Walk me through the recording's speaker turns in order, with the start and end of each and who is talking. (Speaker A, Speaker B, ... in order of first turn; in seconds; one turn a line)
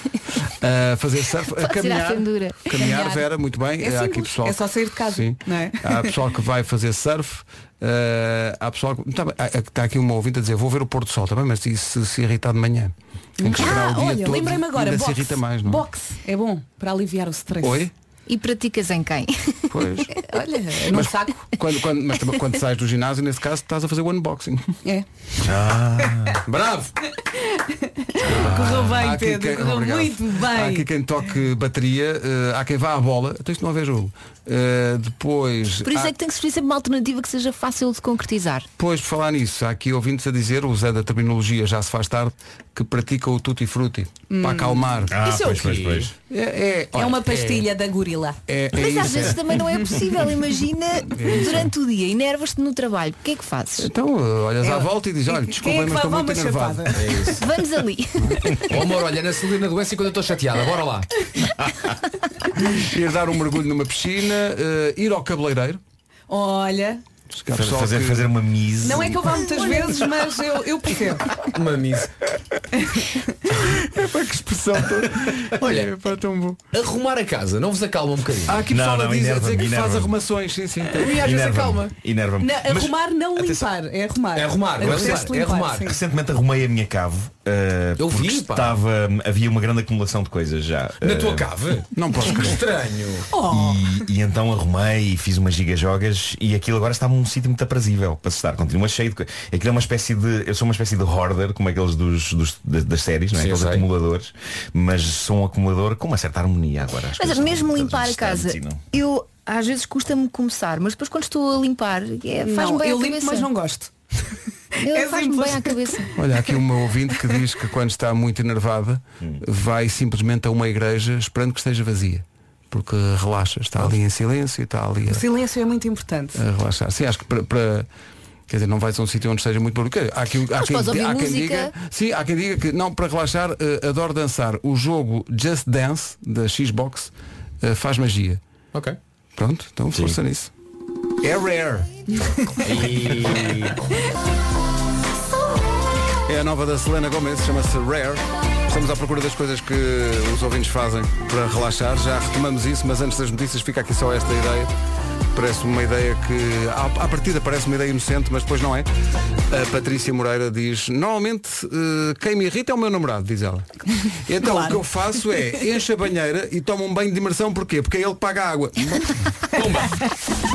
Speaker A: 0.5-15.8
Speaker B: 1.6-2.8
Speaker C: 2.8-3.2
Speaker C: 3.8-6.1
Speaker C: 13.4-17.9
Speaker A: 17.6-17.9
Speaker B: 18.3-20.0
Speaker A: 19.7-20.1
Speaker C: 20.1-21.5
Speaker A: 20.9-24.8
Speaker D: 25.4-26.4
Speaker E: 26.5-26.9
Speaker C: 27.2-30.8
Speaker A: 28.2-36.1
Speaker D: 28.6-28.8
Speaker B: 35.8-38.7
Speaker A: 38.8-45.1
Speaker C: 44.3-45.3
Speaker D: 45.1-46.1
Speaker E: 45.2-46.1
Speaker A: 46.3-47.7
Speaker C: 46.9-48.4
Speaker A: 48.5-49.4
Speaker B: 48.7-53.9
Speaker A: 51.1-51.7
Speaker A: 53.8-57.2
Speaker C: 54.6-57.3
Speaker E: 57.0-57.4
Speaker B: 57.4-58.6
Speaker E: 58.7-61.1
Speaker A: 62.8-65.8
Speaker C: 66.3-67.0
Speaker A: 67.3-68.3
Speaker D: 67.5-69.2
Speaker C: 68.8-71.3
Speaker E: 71.5-72.1
Speaker C: 72.7-73.3
Speaker A: 73.7-76.6
Speaker E: 75.6-75.9
Speaker E: 76.7-78.6
Speaker A: 78.5-81.3
Speaker D: 78.7-80.1
Speaker E: 81.0-81.9
Speaker D: 81.1-83.7
Speaker C: 82.4-86.0
Speaker E: 84.3-86.0
Speaker D: 85.8-91.5
Speaker E: 88.0-88.8
Speaker E: 91.0-93.3
Speaker A: 91.9-92.6
Speaker C: 93.3-94.0
Speaker D: 93.4-108.8
Speaker E: 103.3-103.9
Speaker B: 107.2-113.5
Speaker C: 112.4-113.9
Speaker B: 114.8-116.1
Speaker C: 114.8-116.1
Speaker A: 116.2-125.2
Speaker C: 125.1-126.4
Speaker A: 126.4-127.9
Speaker A: 128.5-137.1
Speaker B: 130.6-131.7
Speaker A: 137.6-138.4
Speaker E: 138.7-139.0
Speaker A: 139.4-140.5
Speaker A: 141.2-141.9
Speaker E: 142.6-143.8
Speaker A: 146.3-154.7
Speaker A: 155.3-158.9
Speaker A: 159.5-163.7
Speaker A: 164.3-169.3
Speaker C: 164.4-165.2
Speaker E: 169.5-170.0